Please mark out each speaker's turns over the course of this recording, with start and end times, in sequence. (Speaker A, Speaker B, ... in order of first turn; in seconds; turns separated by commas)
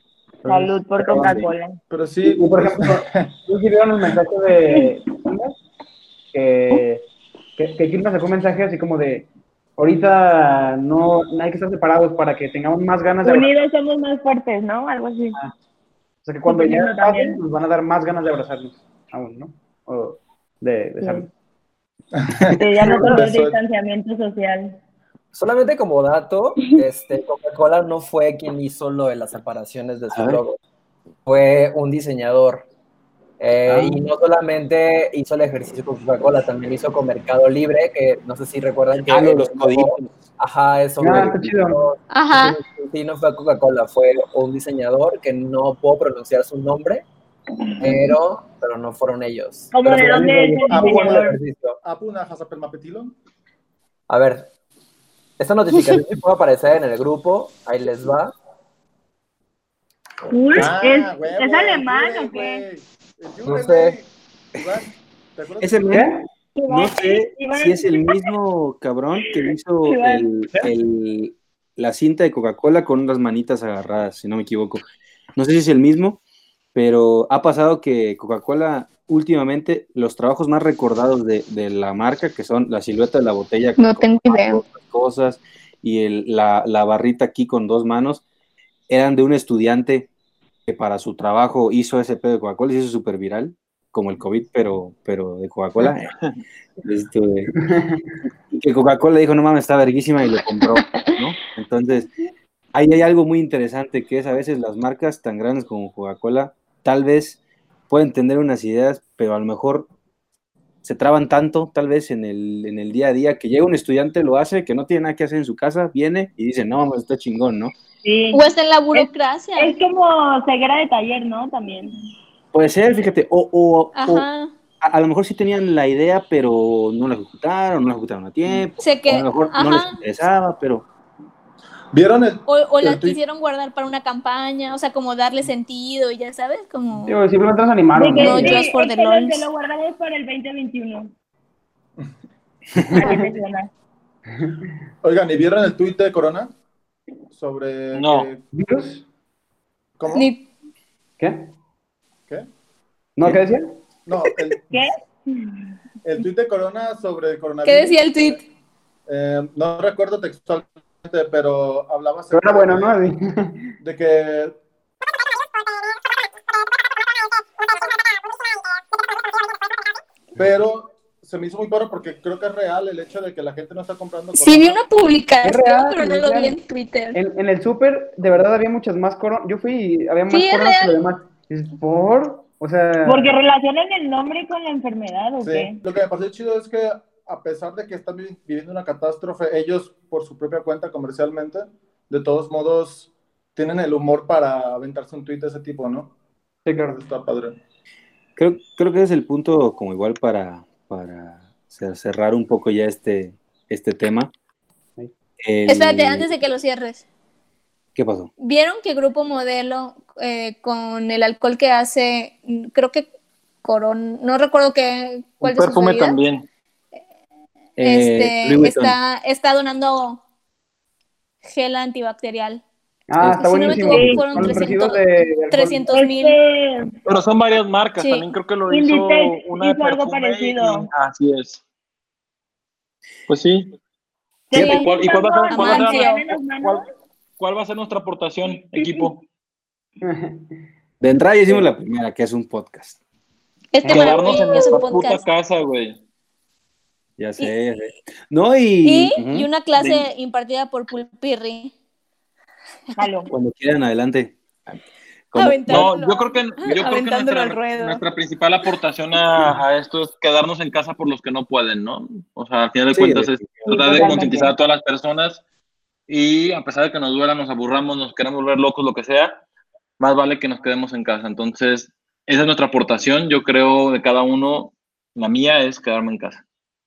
Speaker A: 0.4-1.3, Speaker B: 0.5-1.8, Speaker C: 1.0-1.5, Speaker D: 1.9-3.3, Speaker A: 2.2-5.6, Speaker A: 6.3-7.0, Speaker A: 7.6-13.5, Speaker B: 13.2-15.4, Speaker A: 16.2-21.3, Speaker B: 16.5-17.4, Speaker B: 21.0-21.3, Speaker D: 22.2-23.6, Speaker B: 22.5-24.8, Speaker E: 25.3-30.6, Speaker C: 30.1-30.4, Speaker E: 31.3-32.7, Speaker E: 33.4-47.1, Speaker A: 33.7-34.0, Speaker C: 39.1-40.2, Speaker A: 41.0-41.9, Speaker F: 42.1-42.6, Speaker E: 47.8-51.8, Speaker B: 49.7-51.4, Speaker D: 50.7-53.1, Speaker E: 54.1-54.5, Speaker E: 55.4-58.3, Speaker B: 60.2-62.6, Speaker D: 60.5-65.9, Speaker E: 63.5-64.0, Speaker C: 65.6-66.1, Speaker A: 65.9-66.2, Speaker B: 66.6-68.3, Speaker C: 66.7-74.8, Speaker B: 69.8-70.3, Speaker C: 75.4-76.2, Speaker C: 76.7-88.2, Speaker F: 83.8-84.6, Speaker C: 88.9-90.1, Speaker C: 90.7-96.2, Speaker C: 96.8-97.5, Speaker A: 97.7-98.1, Speaker C: 98.5-102.1, Speaker C: 102.7-107.4, Speaker C: 107.9-109.9, Speaker C: 110.8-117.7, Speaker B: 118.0-118.4, Speaker F: 118.3-119.8, Speaker B: 118.9-122.0, Speaker C: 122.5-124.3, Speaker F: 123.9-124.5, Speaker C: 124.8-130.8, Speaker F: 128.8-130.0, Speaker D: 131.9-133.2, Speaker F: 132.5-137.2, Speaker A: 137.0-138.7, Speaker B: 137.9-141.1, Speaker F: 138.2-139.5, Speaker A: 142.9-143.2, Speaker B: 142.9-143.7, Speaker D: 145.0-146.5, Speaker D: 147.3-148.4, Speaker G: 147.9-148.3, Speaker A: 148.5-149.1, Speaker D: 150.0-150.3, Speaker F: 150.1-150.4, Speaker A: 151.2-151.5, Speaker A: 153.2-153.8, Speaker D: 154.1-154.6, Speaker B: 154.7-155.6, Speaker D: 156.0-158.4, Speaker F: 157.7-158.4, Speaker D: 159.1-163.0, Speaker A: 162.3-163.7, Speaker D: 163.8-164.6, Speaker D: 170.4-174.8, Speaker F: 174.3-177.2, Speaker A: 175.4-176.6, Speaker A: 177.1-183.4, Speaker F: 180.3-181.0, Speaker B: 183.1-185.8, Speaker D: 185.4-196.1, Speaker A: 196.7-197.0, Speaker D: 196.9-197.6, Speaker C: 198.4-204.3, Speaker C: 205.4-206.3, Speaker F: 205.7-207.0, Speaker C: 207.9-208.3, Speaker F: 208.4-213.1, Speaker F: 213.6-216.2, Speaker G: 215.4-216.5, Speaker C: 217.8-219.0, Speaker F: 217.8-220.2, Speaker F: 221.4-222.6, Speaker A: 223.1-225.8, Speaker F: 223.2-226.3, Speaker B: 223.9-224.2, Speaker B: 225.9-226.9, Speaker G: 227.1-231.6, Speaker F: 228.0-228.3, Speaker B: 228.7-230.9, Speaker G: 233.3-233.7, Speaker B: 234.5-236.8, Speaker F: 234.5-234.9, Speaker G: 234.6-236.8, Speaker F: 235.5-236.2, Speaker G: 237.4-239.2, Speaker B: 238.8-239.1, Speaker A: 240.0-240.6, Speaker C: 241.0-243.0, Speaker F: 243.7-245.2, Speaker C: 243.8-244.2, Speaker G: 243.8-246.0, Speaker C: 247.2-249.5, Speaker F: 248.8-251.7, Speaker G: 249.8-250.1, Speaker B: 253.0-253.3, Speaker C: 253.3-254.8, Speaker C: 255.3-255.9, Speaker F: 255.3-258.0, Speaker G: 255.7-265.4, Speaker C: 262.9-263.7, Speaker B: 263.6-264.5, Speaker A: 263.9-264.4, Speaker G: 266.1-269.4, Speaker G: 270.0-276.4